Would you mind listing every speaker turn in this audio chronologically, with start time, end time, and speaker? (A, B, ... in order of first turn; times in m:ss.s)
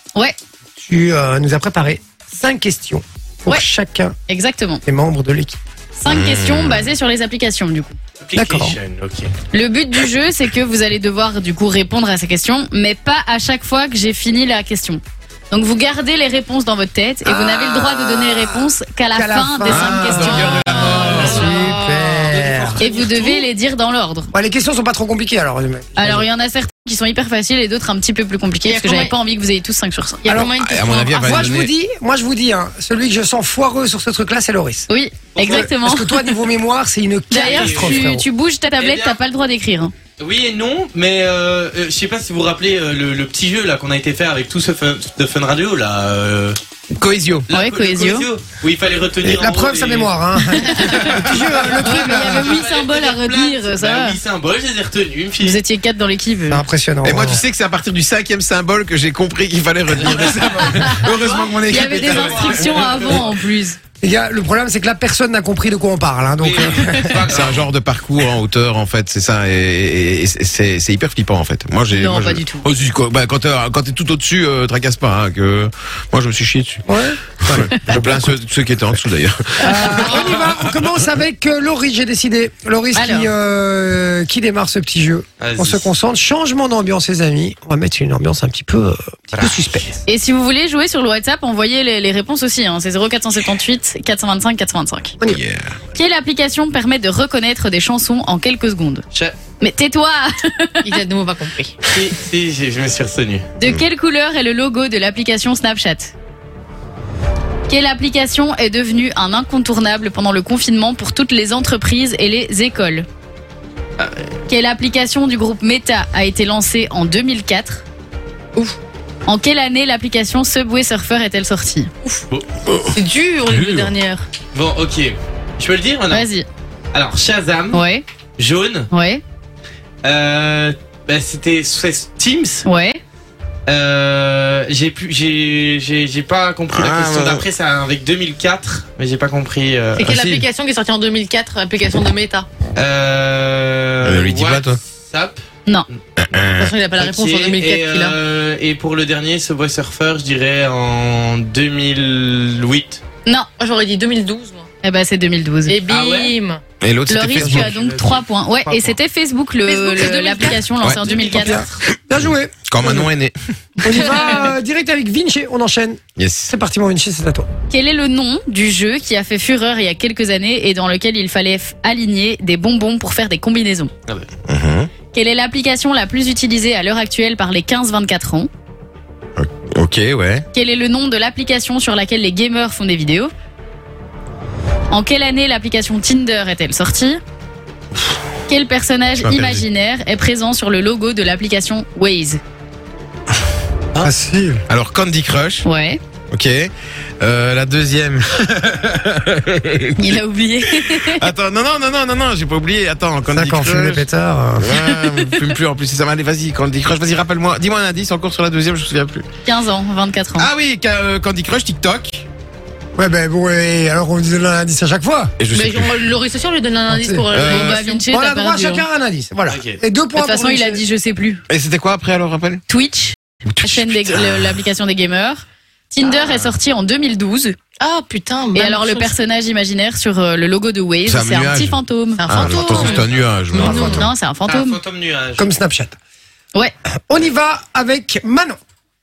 0:00.8-0:04.2 A
0:04.3-0:04.8 B
0:04.8-0:05.6 A
0:06.0-0:07.9 B
0:06.1-0:06.8 C
0:08.2-0:09.3 D
0:08.4-0:08.8 A
0:09.5-0:21.6 B
0:17.3-0:18.4 A
0:19.1-0:22.8 A
0:19.7-0:21.4 C
0:20.5-0:22.4 E
0:22.3-0:23.3 D
0:22.8-0:24.3 B
0:24.3-0:26.3 A
0:26.0-0:30.3 B
0:28.6-0:29.2 E
0:30.2-0:31.5 E
0:30.3-0:31.7 C
0:31.2-0:34.9 A
0:34.9-0:36.4 B
0:35.4-0:35.7 D
0:35.4-0:38.2 A
0:37.3-0:39.9 B
0:37.3-0:38.1 D
0:38.8-0:39.2 D
0:40.2-0:46.6 D
0:46.9-0:47.5 C
0:47.5-0:50.2 D
0:47.5-0:48.3 B
0:49.2-0:52.6 A
0:50.5-0:51.2 B
0:51.4-0:55.6 D
0:51.8-0:54.2 B
0:55.4-0:56.6 B
0:56.5-0:57.4 A
0:57.0-1:02.9 C
1:00.0-1:03.3 D
1:01.7-1:03.8 B
1:04.0-1:07.3 A
1:06.4-1:07.7 D
1:07.2-1:16.8 C
1:11.9-1:12.6 B
1:16.9-1:18.3 A
1:17.4-1:20.8 C
1:19.6-1:30.0 A
1:22.9-1:23.3 B
1:25.4-1:25.9 D
1:29.3-1:29.9 D
1:30.0-1:35.2 B
1:35.3-1:35.8 C
1:35.9-1:39.0 B
1:39.6-1:41.0 B
1:40.8-1:41.8 E
1:41.9-1:43.5 D
1:43.6-1:46.1 B
1:47.7-1:53.0 B
1:54.5-1:57.8 B
1:59.2-2:01.9 B
2:02.7-2:02.9 C
2:02.9-2:04.3 E
2:03.5-2:03.9 C
2:04.5-2:06.3 D
2:06.1-2:06.4 B
2:06.9-2:07.8 D
2:07.7-2:08.0 B
2:08.4-2:08.9 D
2:08.9-2:09.2 B
2:10.0-2:12.6 D
2:12.6-2:13.0 B
2:13.7-2:20.4 D
2:16.7-2:17.4 C
2:20.0-2:22.5 E
2:22.7-2:25.4 D
2:24.0-2:24.8 C
2:26.2-2:26.7 C
2:26.5-2:28.2 E
2:27.0-2:33.0 D
2:33.6-2:34.7 E
2:34.8-2:35.8 B
2:35.7-2:36.6 E
2:35.9-2:36.3 D
2:36.8-2:37.7 C
2:37.1-2:41.7 B
2:37.5-2:38.9 D
2:39.6-2:41.3 E
2:40.8-2:41.2 C
2:41.0-2:41.7 D
2:41.3-2:43.1 A
2:42.1-2:43.4 C
2:43.8-2:47.5 A
2:43.9-2:44.5 E
2:46.2-2:46.5 C
2:47.7-2:53.9 B
2:54.4-2:54.9 C
2:55.1-2:58.5 B
2:59.4-3:00.4 C
3:00.5-3:03.3 B
3:04.9-3:07.2 B
3:08.5-3:12.4 B
3:09.2-3:09.6 C
3:14.0-3:14.6 A
3:14.7-3:15.6 C
3:15.6-3:16.0 B
3:16.3-3:20.1 C
3:20.0-3:21.3 B
3:20.8-3:24.0 C
3:23.3-3:24.8 A
3:24.6-3:29.2 C
3:29.4-3:30.5 B
3:30.4-3:32.2 C
3:33.0-3:35.3 A
3:35.4-3:36.0 C
3:35.5-3:38.1 E
3:36.9-3:37.3 A
3:37.3-3:37.8 C
3:37.6-3:38.8 B
3:38.1-3:40.8 A
3:39.5-3:39.8 D
3:40.1-3:41.4 B
3:41.5-3:42.6 C
3:42.7-3:47.6 B
3:43.6-3:44.4 C
3:46.2-3:46.5 D
3:47.8-3:49.2 E
3:48.5-3:52.4 B
3:51.0-3:54.1 C
3:52.2-3:54.1 E
3:53.9-3:54.8 B
3:54.4-3:55.5 D
3:55.4-3:56.0 A
3:57.1-3:58.6 A